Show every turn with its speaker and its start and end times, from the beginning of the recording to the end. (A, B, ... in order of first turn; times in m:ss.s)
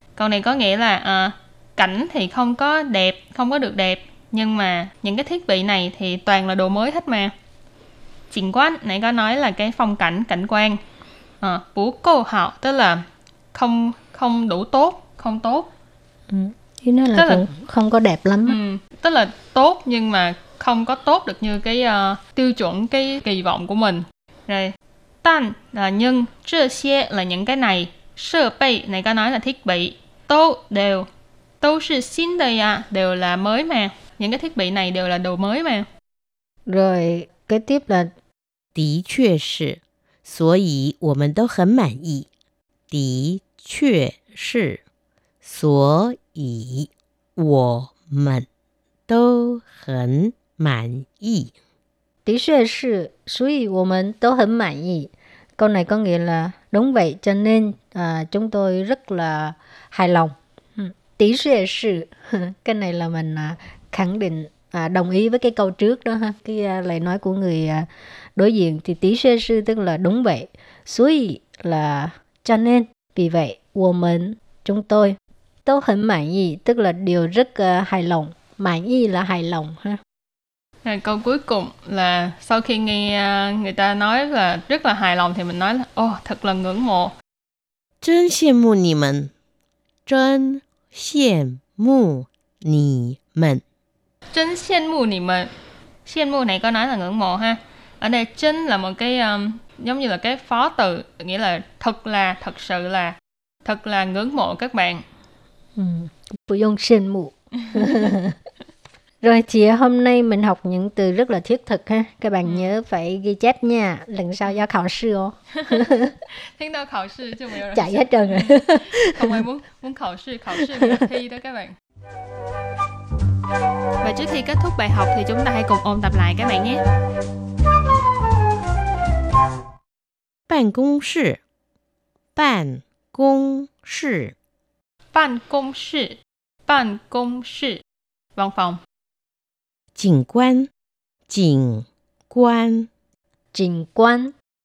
0:00.2-0:07.3 A
0:08.3-0:10.8 A
0:11.4-0:13.0 A
0:13.5-0:15.7 A
0:16.3-0:18.6 B
0:17.1-0:17.5 A
0:18.4-0:31.1 A
0:31.6-0:35.8 A
0:36.7-0:38.1 B
0:38.7-0:42.3 C
0:42.9-0:44.8 C
0:45.4-0:48.5 C
0:49.1-0:51.5 C
0:52.2-1:20.0 B
1:20.8-1:27.1 A
1:28.0-1:29.3 C
1:30.0-1:33.6 C
1:34.3-1:35.5 A
1:36.0-1:45.0 A
1:45.8-1:48.4 B
1:49.2-1:56.1 B
1:52.4-1:52.7 A
1:55.5-1:55.9 A
1:56.5-2:01.7 A
1:57.7-1:59.2 B
2:04.0-2:06.8 A
2:10.5-2:11.4 C
2:12.3-2:14.3 C
2:15.1-2:17.8 A
2:18.4-2:18.8 A
2:19.9-2:20.7 C
2:21.3-2:22.9 C
2:23.5-2:24.3 B